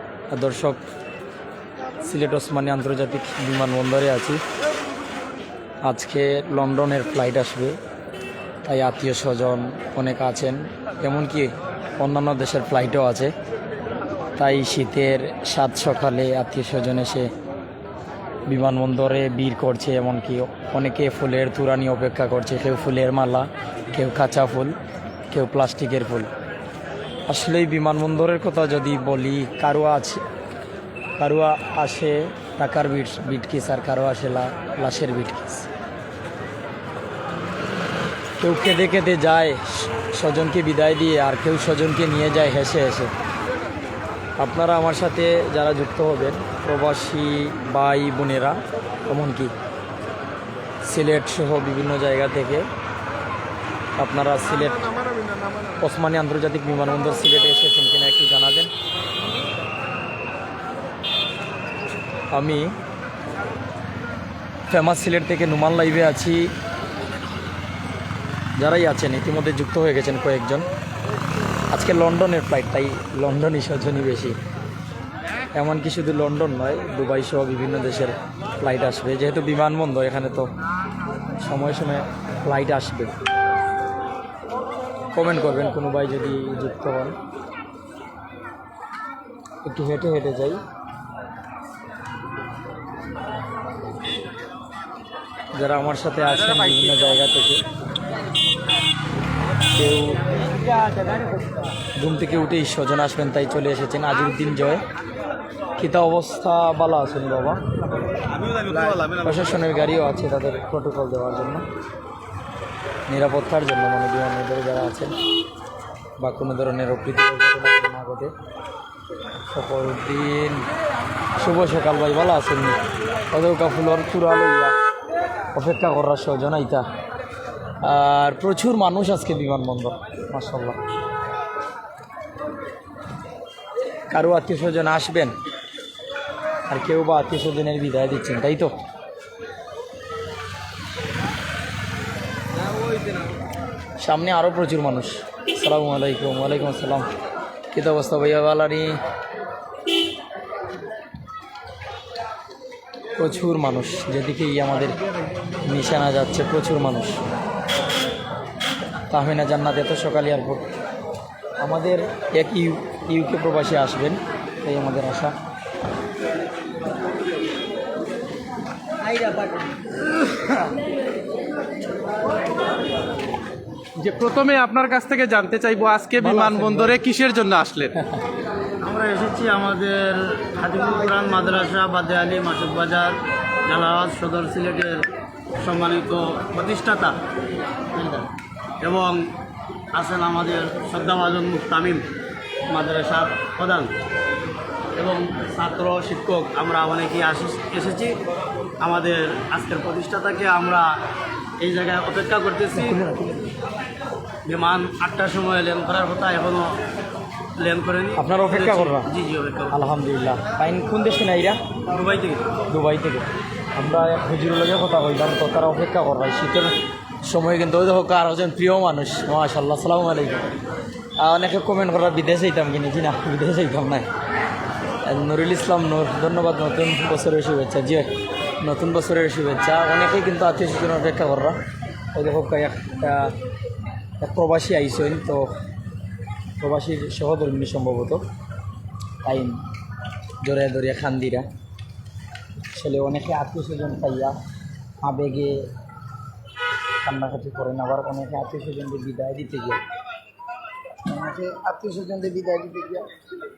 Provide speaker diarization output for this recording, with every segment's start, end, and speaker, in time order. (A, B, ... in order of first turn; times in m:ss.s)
0:00.3-0:00.8 A
0:02.0-0:04.4 A
0:05.9-0:07.8 A
0:08.6-0:13.3 A
0:14.4-0:17.3 A
0:18.5-0:24.8 A
0:25.3-0:26.3 A
0:27.3-0:30.2 A
0:31.2-0:35.7 A
0:38.4-0:43.1 A
0:44.4-0:49.5 A
0:50.8-0:52.7 A
0:54.0-0:54.9 A
0:55.8-0:58.7 A
1:02.3-1:02.8 A
1:04.7-1:06.5 A
1:08.6-1:10.7 A
1:11.7-1:14.4 A
1:15.5-1:20.5 A
1:21.4-1:23.1 A
1:25.1-1:27.2 A
1:29.6-1:30.6 A
1:35.6-1:37.6 A
1:39.8-1:40.4 A
1:42.0-1:44.8 A
1:45.8-1:47.6 A
1:48.7-1:48.9 B
1:49.1-1:51.6 A
1:53.1-1:55.1 A
1:56.2-1:58.3 A
1:59.5-2:00.6 A
2:01.4-2:02.8 A
2:03.3-2:04.7 A
2:05.5-2:06.9 A
2:07.8-2:10.8 A
2:14.1-2:15.3 A
2:16.7-2:18.7 A
2:24.0-2:27.1 A
2:27.7-2:29.0 A
2:33.2-2:35.0 A
2:35.6-2:37.2 A
2:39.1-2:40.7 A
2:41.6-2:45.4 A
2:54.0-2:58.0 C
2:56.2-2:57.0 A
2:58.8-3:05.1 B
3:05.6-3:07.2 B
3:07.9-3:09.3 B
3:09.9-3:12.1 B
3:12.7-3:13.9 B
3:15.0-3:18.2 B
3:18.8-3:21.0 B
3:21.6-3:23.0 B
3:22.7-3:23.5 A
3:24.4-3:26.8 B
3:27.6-3:29.7 B
3:28.2-3:29.1 A
3:29.7-3:31.6 A
3:31.9-3:32.4 B
3:32.7-3:40.5 A
3:41.2-3:44.1 A
3:45.0-3:48.1 A
3:48.6-3:51.6 A
3:52.1-3:53.4 A
3:54.2-3:55.5 A
3:56.6-3:58.2 A
3:59.2-3:59.6 A
4:00.4-4:01.5 A
4:02.7-4:04.4 A
4:05.0-4:05.7 A
4:07.0-4:09.8 A
4:11.1-4:13.0 A